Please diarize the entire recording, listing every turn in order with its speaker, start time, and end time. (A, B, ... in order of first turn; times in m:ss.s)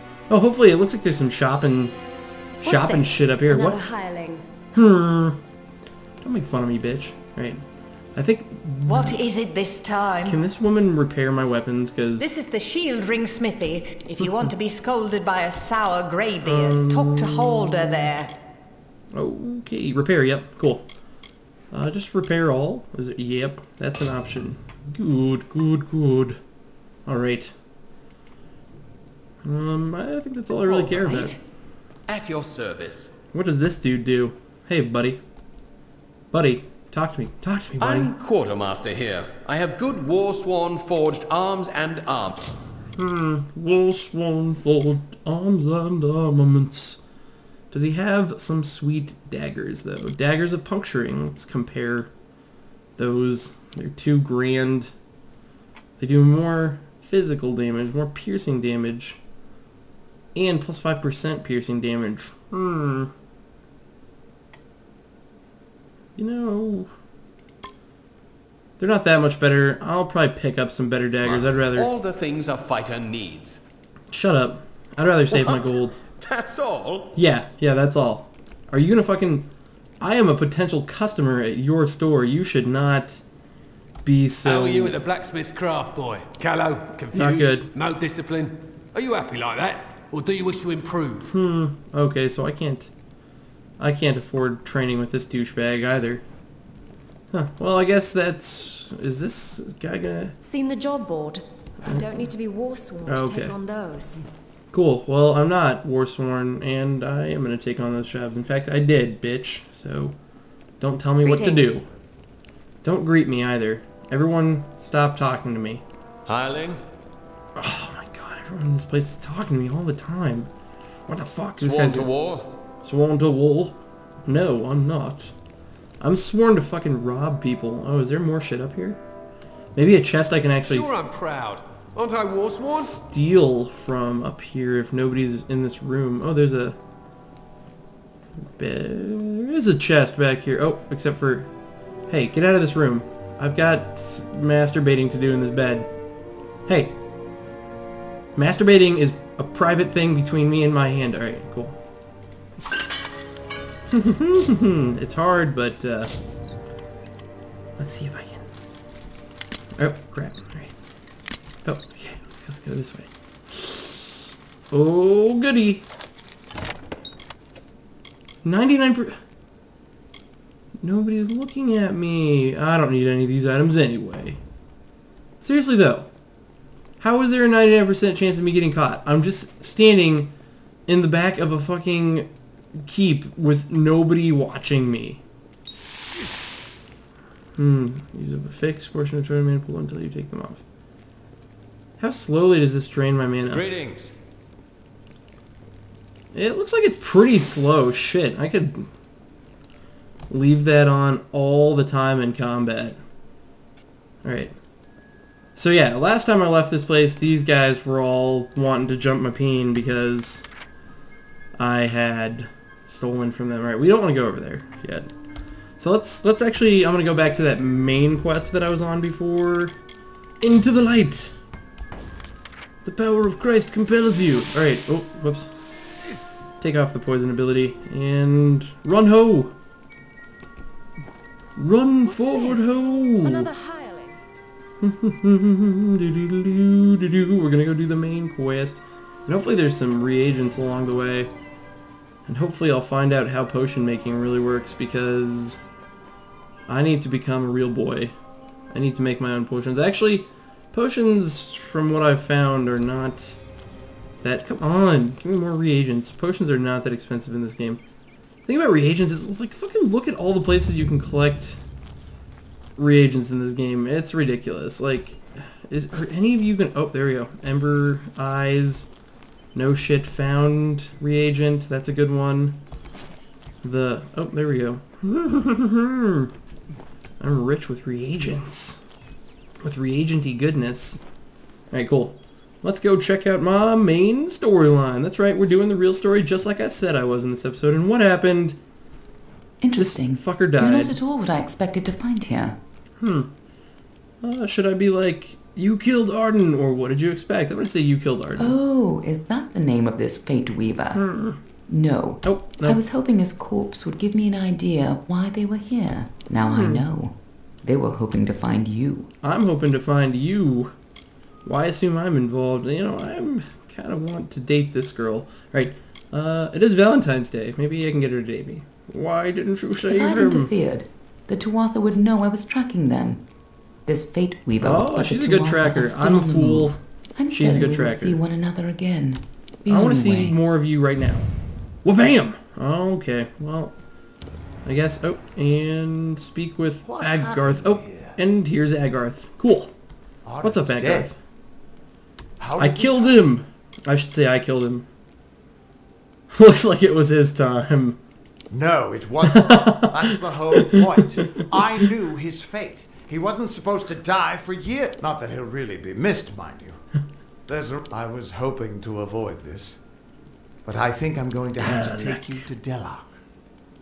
0:00.3-0:02.0 A
0:02.6-0:03.8 A
0:02.6-0:04.4 B
0:04.7-0:05.4 A
0:06.2-0:07.6 A
0:08.2-0:09.2 A
0:08.9-0:10.4 C
0:10.2-0:12.3 A
0:12.2-0:18.3 C
0:16.4-0:18.1 A
0:19.1-0:20.9 A
0:21.7-0:26.4 A
0:27.1-0:27.5 A
0:29.4-0:31.4 A
0:30.6-0:31.3 D
0:32.1-0:33.1 D
0:33.3-0:35.2 A
0:36.3-0:38.1 A
0:37.8-0:42.4 D
0:43.0-0:47.0 A
0:47.7-0:52.1 A
0:53.0-0:54.9 A
0:56.0-0:59.2 A
1:00.4-1:03.1 A
1:06.2-1:06.9 A
1:08.8-1:11.9 A
1:11.2-1:13.6 D
1:14.1-1:16.0 A
1:15.3-1:17.2 D
1:17.1-1:19.5 A
1:20.0-1:23.2 A
1:24.0-1:25.0 A
1:24.4-1:31.2 E
1:27.1-1:27.7 A
1:31.3-1:32.9 A
1:33.8-1:36.2 A
1:37.3-1:40.4 A
1:40.4-1:44.2 B
1:41.8-1:42.2 A
1:43.0-1:43.5 A
1:44.7-1:50.2 A
1:50.8-1:51.8 A
1:51.2-1:51.8 B
1:52.8-1:55.8 A
1:56.3-1:56.8 D
1:57.6-2:00.5 A
2:01.1-2:02.1 A
2:01.6-2:02.5 D
2:02.8-2:05.3 A
2:06.0-2:09.0 A
2:09.8-2:11.0 A
2:10.7-2:13.0 D
2:12.7-2:16.8 A
2:18.6-2:21.5 A
2:22.1-2:25.9 A
2:26.7-2:27.0 A
2:28.4-2:31.8 A
2:33.9-2:36.1 A
2:37.8-2:38.5 A
2:39.8-2:40.7 A
2:41.6-2:45.8 A
2:48.4-2:49.2 A
2:50.8-2:54.4 A
2:55.4-2:56.1 A
2:57.0-3:00.3 A
3:00.9-3:02.3 A
3:02.8-3:05.2 A
3:07.6-3:10.6 A
3:12.0-3:13.7 A
3:13.5-3:14.1 D
3:16.3-3:18.9 A
3:20.3-3:23.0 A
3:24.2-3:24.5 A
3:25.6-3:30.5 A
3:31.6-3:35.1 A
3:35.8-3:39.8 A
3:40.4-3:41.4 A
3:42.8-3:45.5 A
3:46.6-3:49.5 A
3:51.6-3:53.5 A
3:52.1-3:54.2 B
3:54.8-4:01.3 A
4:02.3-4:05.6 A
4:06.7-4:08.1 A
4:08.7-4:13.4 A
4:14.2-4:17.8 A
4:18.5-4:21.6 A
4:22.8-4:28.9 A
4:29.5-4:32.6 A
4:33.6-4:36.3 A
4:37.2-4:38.8 A
4:39.6-4:41.0 A
4:41.7-4:48.6 A
4:49.6-4:52.6 F
4:49.8-4:51.0 A
4:53.0-4:53.3 A
4:54.2-4:58.6 A
4:58.4-5:01.0 F
5:00.9-5:01.4 A
5:01.7-5:09.1 F
5:02.2-5:02.8 A
5:06.4-5:06.8 A
5:09.2-5:10.7 A
5:11.4-5:20.5 A
5:19.8-5:23.3 F
5:23.9-5:30.4 F
5:24.6-5:28.2 A
5:29.7-5:31.3 A
5:31.8-5:33.8 A
5:34.6-5:39.7 A
5:36.8-5:38.2 G
5:40.2-5:41.1 G
5:40.4-5:41.2 A
5:42.4-5:43.2 G
5:42.6-5:44.9 A
5:46.3-5:48.0 A
5:48.5-5:56.8 G
5:49.3-5:51.8 A
5:57.5-5:59.8 G
6:00.6-6:03.1 G
6:01.6-6:02.4 A